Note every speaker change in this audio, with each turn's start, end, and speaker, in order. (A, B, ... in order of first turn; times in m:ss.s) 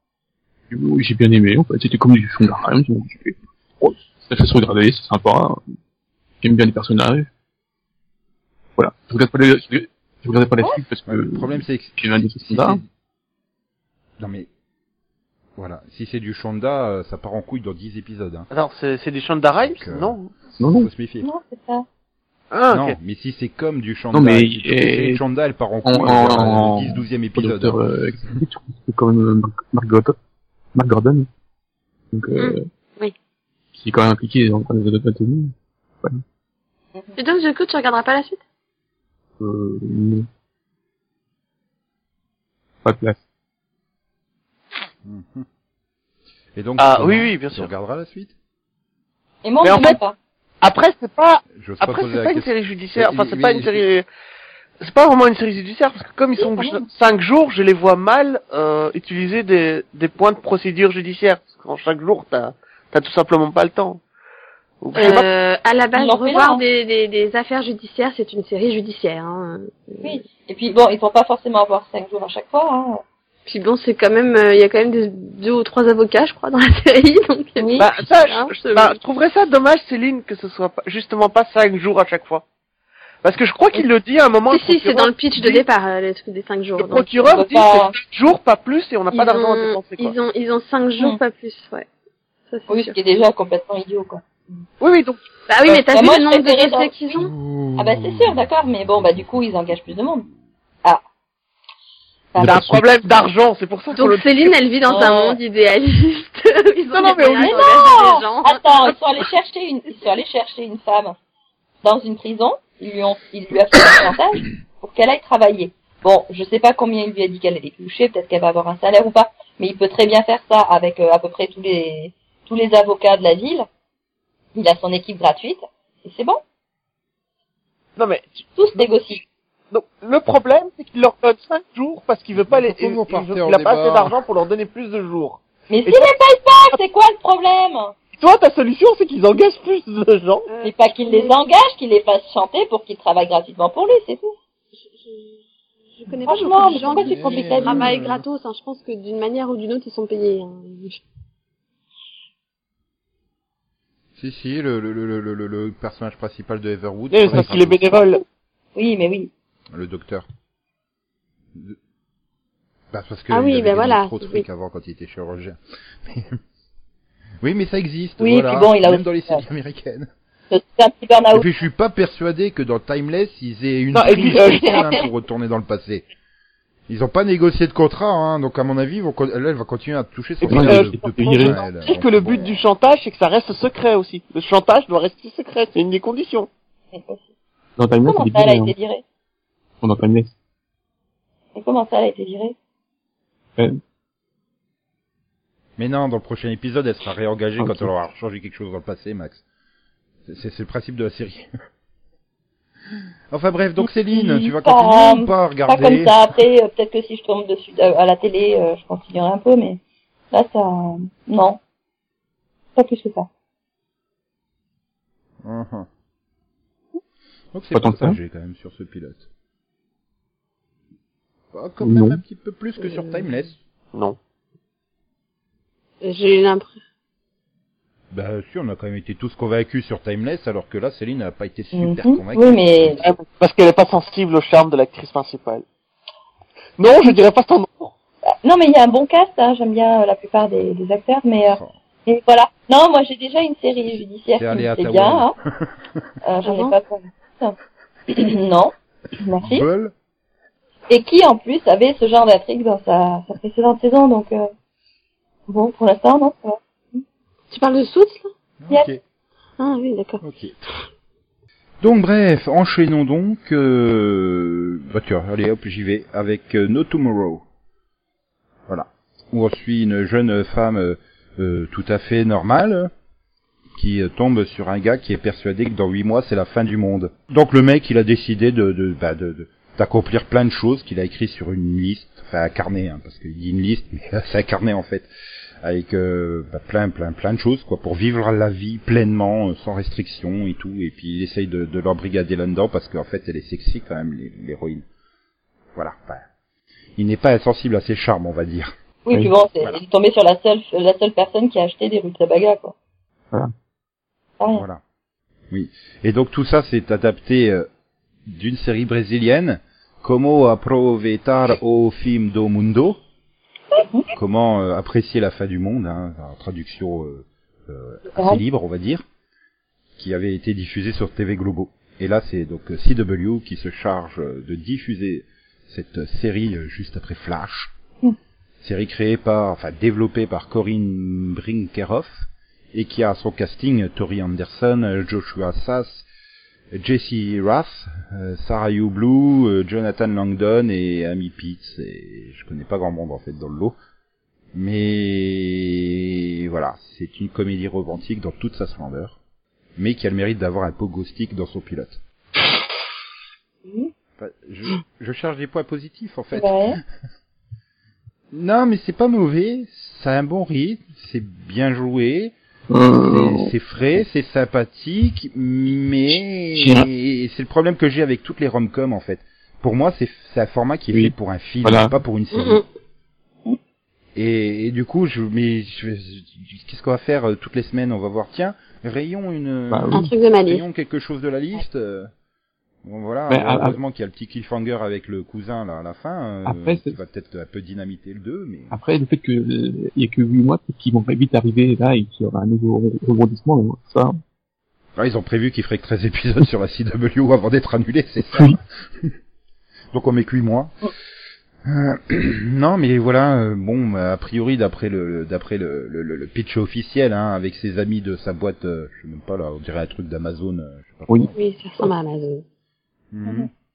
0:00.7-0:05.6 A
0:06.4-0:07.3 A
0:08.8-0:12.8 A
0:11.1-0:12.8 B
0:14.2-0:14.5 B
0:15.6-0:18.5 B
0:18.5-0:20.3 C
0:19.6-0:21.3 B
0:20.6-0:20.9 A
0:21.2-0:21.8 D
0:22.5-0:23.0 C
0:22.7-0:27.8 B
0:24.1-0:25.2 A
0:25.8-0:30.2 A
0:30.7-0:31.3 A
0:32.1-0:32.7 A
0:32.4-0:33.1 E
0:33.7-0:36.2 A
0:37.2-0:38.4 E
0:39.4-0:40.3 A
0:42.8-0:43.2 A
0:45.0-0:45.4 B
0:46.6-0:48.3 B
0:46.8-0:47.7 C
0:49.4-0:50.2 D
0:49.6-0:50.0 C
0:50.6-0:54.0 C
0:51.6-0:53.8 B
0:54.8-1:04.0 C
0:56.4-0:56.8 D
1:04.8-1:05.3 C
1:05.0-1:10.2 E
1:06.0-1:06.6 D
1:10.0-1:13.0 D
1:13.4-1:18.9 E
1:17.6-1:17.9 D
1:17.8-1:22.4 C
1:23.2-1:25.6 C
1:24.5-1:27.4 E
1:26.8-1:30.1 C
1:27.3-1:28.0 D
1:29.1-1:31.8 E
1:32.5-1:33.0 E
1:32.7-1:34.6 D
1:34.8-1:35.2 C
1:35.5-1:37.3 E
1:35.7-1:40.3 D
1:37.3-1:40.0 B
1:42.3-1:42.6 D
1:42.4-1:42.8 A
1:42.4-1:45.1 C
1:43.9-1:48.9 E
1:44.9-1:45.3 D
1:46.9-1:47.8 C
1:47.4-1:51.2 D
1:51.8-2:03.7 D
2:04.6-2:06.4 D
2:08.0-2:08.8 C
2:08.6-2:09.2 D
2:09.7-2:16.1 C
2:12.4-2:14.2 B
2:15.7-2:17.9 D
2:18.1-2:20.5 C
2:20.5-2:21.4 E
2:20.6-2:24.3 D
2:26.0-2:31.0 E
2:26.2-2:27.9 D
2:26.6-2:28.2 B
2:34.2-2:38.0 B
2:37.1-2:38.2 C
2:38.8-2:39.3 D
2:39.7-2:40.2 B
2:42.9-2:46.4 B
2:43.3-2:44.4 E
2:47.4-2:50.1 B
2:48.2-2:49.4 D
2:50.5-2:51.5 D
2:51.3-2:56.0 B
2:53.9-2:54.8 C
2:54.2-2:54.8 E
2:56.9-3:02.6 B
3:00.4-3:06.5 C
3:00.4-3:01.6 A
3:06.9-3:07.3 D
3:07.8-3:08.7 A
3:08.0-3:09.0 D
3:09.8-3:10.3 A
3:11.5-3:12.5 D
3:15.8-3:19.4 B
3:17.6-3:17.9 A
3:20.2-3:21.5 B
3:23.3-3:26.3 B
3:24.1-3:29.8 D
3:30.3-3:31.6 D
3:32.7-3:33.3 D
3:35.4-3:35.9 B
3:37.5-3:39.3 B
3:37.7-3:38.2 A
3:41.5-3:43.6 B
3:41.8-3:42.2 A
3:42.8-3:43.2 E
3:46.0-3:46.8 E
3:48.1-3:53.1 B
3:51.7-3:53.0 D
3:53.0-3:55.6 C
3:56.8-3:57.9 C
3:58.4-4:05.4 D
4:01.5-4:01.8 B
4:04.4-4:05.3 B
4:06.2-4:07.6 D
4:06.4-4:06.8 E
4:08.1-4:09.7 D
4:09.4-4:09.9 B
4:10.9-4:14.4 D
4:15.5-4:17.0 D
4:17.5-4:18.3 E
4:18.6-4:19.0 B
4:19.6-4:20.2 E
4:20.2-4:20.6 B
4:21.8-4:27.4 B
4:28.7-4:32.9 B
4:33.7-4:45.1 B
4:45.6-4:54.8 B
4:55.7-4:56.2 B
4:57.0-4:58.7 B
4:59.0-5:02.7 D
5:04.4-5:04.6 D
5:04.5-5:04.8 B
5:05.5-5:07.7 B
5:08.2-5:13.0 B
5:13.8-5:14.1 D
5:14.1-5:19.0 B
5:18.1-5:18.4 D
5:20.0-5:27.7 B
5:28.6-5:36.0 B
5:36.7-5:43.8 B
5:44.5-5:49.2 B
5:49.8-5:52.0 B
5:54.2-5:56.8 B
5:56.3-5:56.8 D
5:58.3-6:02.3 B
6:02.7-6:03.5 A
6:02.9-6:12.6 B
6:06.5-6:06.9 A
6:11.6-6:11.9 A
6:12.3-6:12.6 E
6:14.2-6:22.1 B
6:19.7-6:20.1 A
6:19.9-6:20.6 E
6:22.8-6:28.8 B
6:23.3-6:23.8 A
6:26.4-6:27.0 A
6:28.7-6:34.2 A
6:35.0-6:39.1 B
6:38.3-6:38.6 A
6:39.9-6:40.8 B
6:41.6-6:51.3 B
6:51.3-6:52.4 E
6:53.1-6:53.5 B